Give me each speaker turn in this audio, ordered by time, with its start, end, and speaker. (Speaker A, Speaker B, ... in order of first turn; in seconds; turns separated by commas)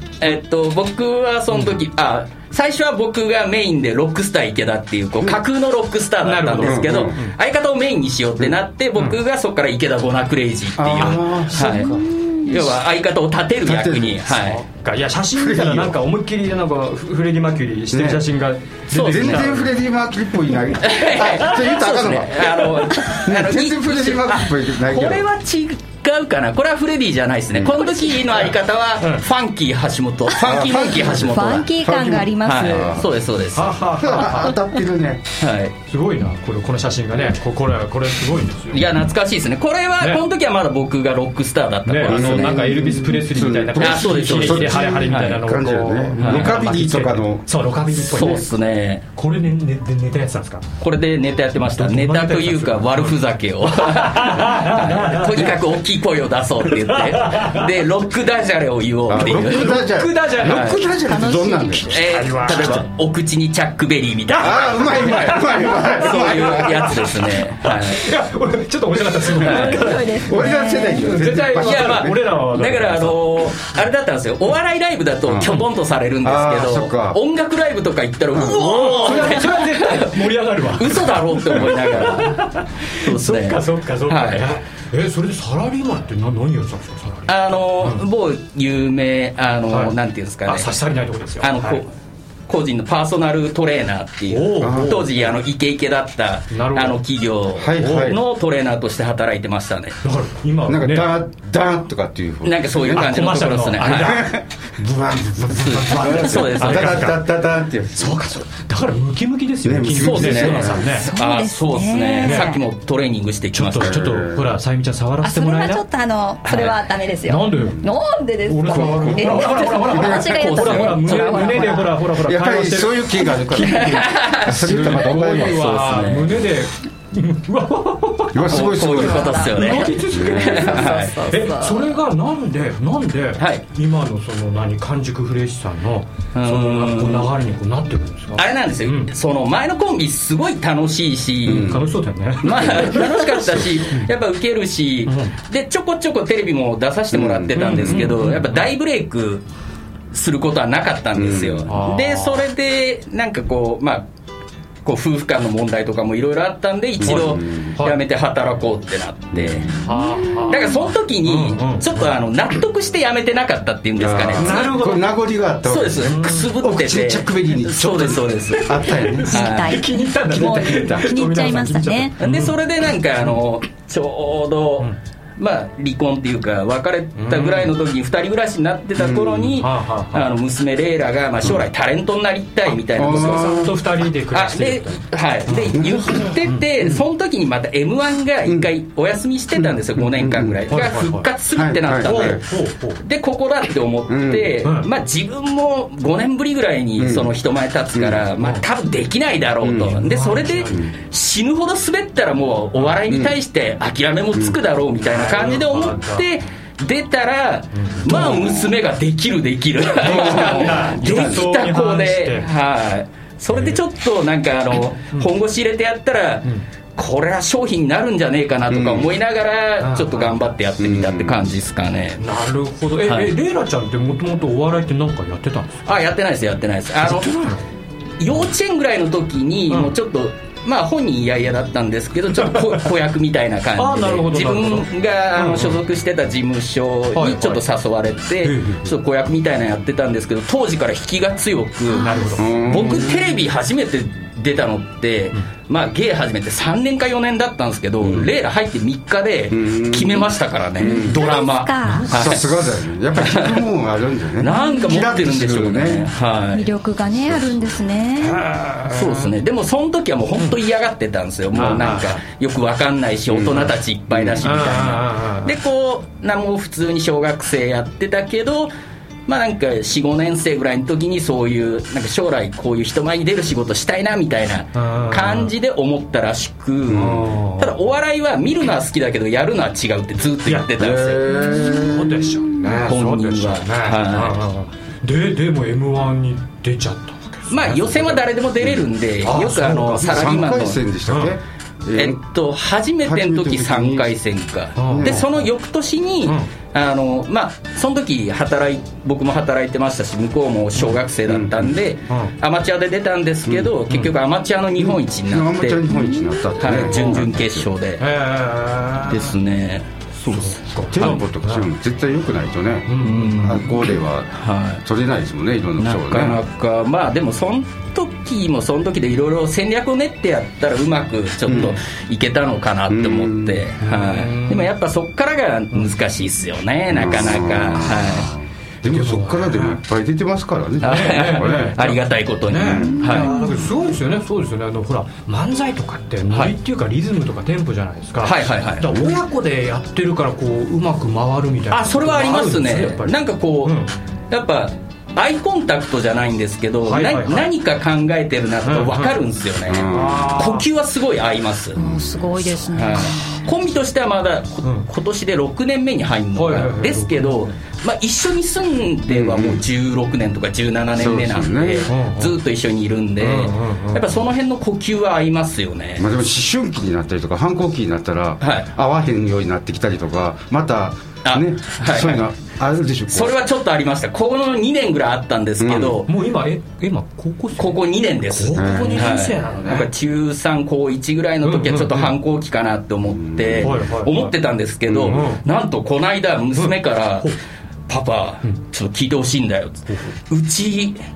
Speaker A: 0.2-11.9, Speaker B: 6.2-7.3, Speaker C: 6.6-7.2, Speaker C: 10.8-12.2, Speaker A: 12.4-14.6, Speaker C: 13.6-14.4, Speaker B: 14.4-19.7, Speaker C: 15.3-16.0, Speaker C: 17.9-18.2, Speaker A: 18.9-19.5, Speaker C: 19.0-25.2, Speaker A: 20.8-31.7, Speaker C: 30.4-33.1, Speaker D: 31.2-33.0, Speaker A: 32.4-33.8, Speaker B: 33.5-34.5, Speaker C: 33.9-35.2, Speaker A: 35.4-35.7, Speaker B: 35.9-38.9, Speaker A: 38.7-42.7, Speaker B: 41.9-48.5, Speaker C: 42.0-47.5, Speaker A: 43.8-45.4, Speaker A: 46.2-46.5, Speaker A: 48.1-49.0, Speaker B: 49.1-50.7, Speaker A: 50.8-59.8, Speaker B: 51.8-53.2, Speaker B: 53.7-55.5, Speaker B: 56.8-57.6, Speaker C: 59.1-62.0, Speaker B: 59.2-60.8, Speaker A: 60.4-60.8, Speaker D: 61.1-61.8, Speaker B: 61.9-62.9, Speaker A: 61.9-68.1, Speaker B: 64.3-66.9, Speaker C: 64.4-67.0, Speaker B: 67.6-73.2, Speaker A: 69.4-69.8, Speaker D: 69.4-71.0, Speaker C: 70.1-72.2, Speaker A: 71.5-84.5, Speaker C: 75.2-75.6, Speaker C: 76.2-77.2, Speaker C: 78.3-79.2, Speaker B: 78.5-88.0, Speaker A: 87.3-90.7, Speaker B: 89.7-89.9, Speaker B: 90.4-91.8, Speaker A: 91.4-91.9, Speaker A: 92.5-100.0, Speaker B: 94.3-95.3, Speaker C: 94.6-95.0, Speaker B: 96.5-97.0, Speaker C: 97.6-98.2, Speaker B: 97.8-98.1, Speaker B: 100.0-101.1, Speaker C: 100.7-103.1, Speaker A: 102.4-104.3, Speaker B: 102.9-107.2, Speaker C: 103.8-108.3, Speaker A: 105.5-107.2, Speaker B: 108.0-111.1, Speaker C: 109.6-110.8, Speaker A: 110.0-114.1, Speaker D: 110.9-112.6, Speaker B: 112.2-112.5, Speaker B: 113.5-115.8, Speaker C: 113.7-114.5, Speaker D: 115.2-121.9, Speaker A: 116.5-116.8, Speaker B: 117.3-117.8, Speaker B: 118.4-128.5, Speaker A: 118.9-121.7, Speaker C: 122.2-125.8, Speaker A: 123.7-126.3, Speaker C: 128.3-131.0, Speaker A: 128.5-131.1, Speaker D: 128.9-129.9, Speaker B: 129.5-139.1, Speaker D: 130.7-131.9, Speaker A: 136.3-137.3, Speaker A: 138.3-141.7, Speaker C: 141.5-141.8, Speaker B: 141.6-143.1, Speaker A: 142.4-149.4, Speaker C: 142.4-143.7, Speaker B: 145.1-145.3, Speaker C: 147.1-148.0, Speaker B: 147.6-148.6, Speaker A: 150.1-154.0, Speaker C: 151.1-151.7, Speaker B: 151.7-152.4, Speaker A: 154.8-159.8, Speaker C: 157.0-157.7, Speaker B: 157.1-158.0, Speaker C: 159.3-159.7, Speaker B: 159.8-162.1, Speaker A: 160.5-164.8, Speaker C: 164.0-169.6, Speaker B: 164.3-165.0, Speaker A: 165.7-169.8, Speaker B: 166.0-166.5, Speaker B: 168.8-172.6, Speaker D: 169.3-172.1, Speaker C: 170.3-171.1, Speaker A: 172.2-183.7, Speaker B: 177.2-177.7, Speaker C: 179.0-179.6, Speaker B: 179.6-180.3, Speaker C: 182.9-183.8, Speaker B: 183.0-185.8, Speaker A: 184.3-192.4, Speaker C: 185.7-186.3, Speaker B: 186.4-187.0, Speaker C: 188.4-188.7, Speaker C: 189.5-190.6, Speaker B: 190.7-191.3, Speaker C: 191.5-192.4, Speaker B: 192.0-193.0, Speaker A: 193.0-222.2, Speaker C: 194.1-194.6, Speaker C: 197.0-197.3, Speaker C: 197.9-198.2, Speaker B: 198.4-198.6, Speaker C: 199.6-200.0, Speaker B: 200.0-200.8, Speaker C: 203.1-203.3, Speaker B: 205.0-206.2, Speaker B: 207.7-208.4, Speaker C: 208.1-208.7, Speaker B: 210.0-212.5, Speaker C: 210.0-211.5, Speaker B: 213.5-213.8, Speaker C: 218.7-219.1, Speaker B: 219.8-220.3, Speaker C: 220.8-221.5, Speaker B: 222.2-225.8, Speaker A: 223.1-223.3, Speaker A: 225.8-227.5, Speaker B: 227.0-227.6, Speaker A: 228.2-252.4, Speaker B: 233.8-235.8, Speaker B: 237.1-237.6, Speaker B: 238.4-238.9, Speaker D: 241.9-242.2, Speaker B: 241.9-242.5, Speaker C: 242.4-243.3, Speaker C: 248.0-248.3, Speaker C: 249.5-251.3, Speaker D: 250.8-252.1, Speaker B: 251.8-252.2, Speaker C: 252.1-256.1, Speaker A: 253.2-253.7, Speaker A: 254.4-256.7, Speaker D: 254.5-254.9, Speaker D: 256.5-258.4, Speaker C: 257.2-257.7, Speaker B: 258.2-259.3, Speaker A: 258.9-268.7, Speaker B: 261.5-262.2, Speaker C: 263.3-264.6, Speaker B: 264.4-265.5, Speaker A: 269.3-281.3, Speaker B: 274.7-275.5, Speaker C: 276.9-277.2, Speaker B: 276.9-277.7, Speaker B: 280.4-280.7, Speaker C: 280.8-282.4, Speaker D: 281.4-281.8, Speaker B: 281.6-288.2, Speaker A: 282.8-284.4, Speaker A: 287.5-290.8, Speaker B: 289.2-290.4, Speaker C: 290.0-292.2, Speaker B: 291.1-291.3, Speaker A: 291.9-305.9, Speaker C: 293.0-294.1, Speaker B: 294.8-295.2, Speaker C: 294.9-295.5, Speaker C: 301.3-301.7, Speaker B: 302.1-302.3, Speaker C: 303.5-303.7, Speaker C: 304.8-307.7, Speaker D: 305.9-306.2, Speaker A: 306.6-308.0, Speaker B: 308.0-309.3, Speaker A: 309.1-311.0, Speaker B: 310.2-311.6, Speaker C: 310.9-316.4, Speaker B: 312.9-313.6, Speaker A: 313.0-313.8, Speaker A: 314.3-314.8, Speaker A: 315.8-328.3, Speaker C: 321.5-321.8, Speaker C: 322.9-323.6, Speaker B: 323.8-324.7, Speaker C: 326.9-331.9, Speaker B: 328.9-329.8, Speaker A: 330.8-333.3, Speaker B: 330.8-343.9, Speaker C: 332.5-333.6, Speaker D: 333.2-333.4, Speaker A: 338.2-339.0, Speaker A: 341.7-343.8, Speaker A: 344.3-351.8, Speaker B: 346.9-347.5, Speaker B: 348.6-349.1, Speaker C: 349.7-350.3, Speaker B: 349.9-350.6, Speaker D: 352.4-353.0, Speaker A: 352.7-366.1, Speaker B: 356.3-357.5, Speaker C: 359.1-359.6, Speaker C: 360.9-361.9, Speaker B: 361.9-362.3, Speaker B: 363.2-364.0, Speaker C: 366.0-373.4, Speaker A: 368.4-368.7, Speaker A: 371.2-372.2, Speaker A: 373.1-376.1, Speaker C: 375.6-376.0, Speaker B: 376.0-379.9, Speaker A: 377.6-387.3, Speaker C: 378.5-379.2, Speaker B: 381.4-382.1, Speaker C: 383.1-383.7, Speaker B: 383.6-384.3, Speaker C: 384.9-385.2, Speaker B: 385.0-385.4, Speaker B: 386.5-387.4, Speaker A: 387.9-391.0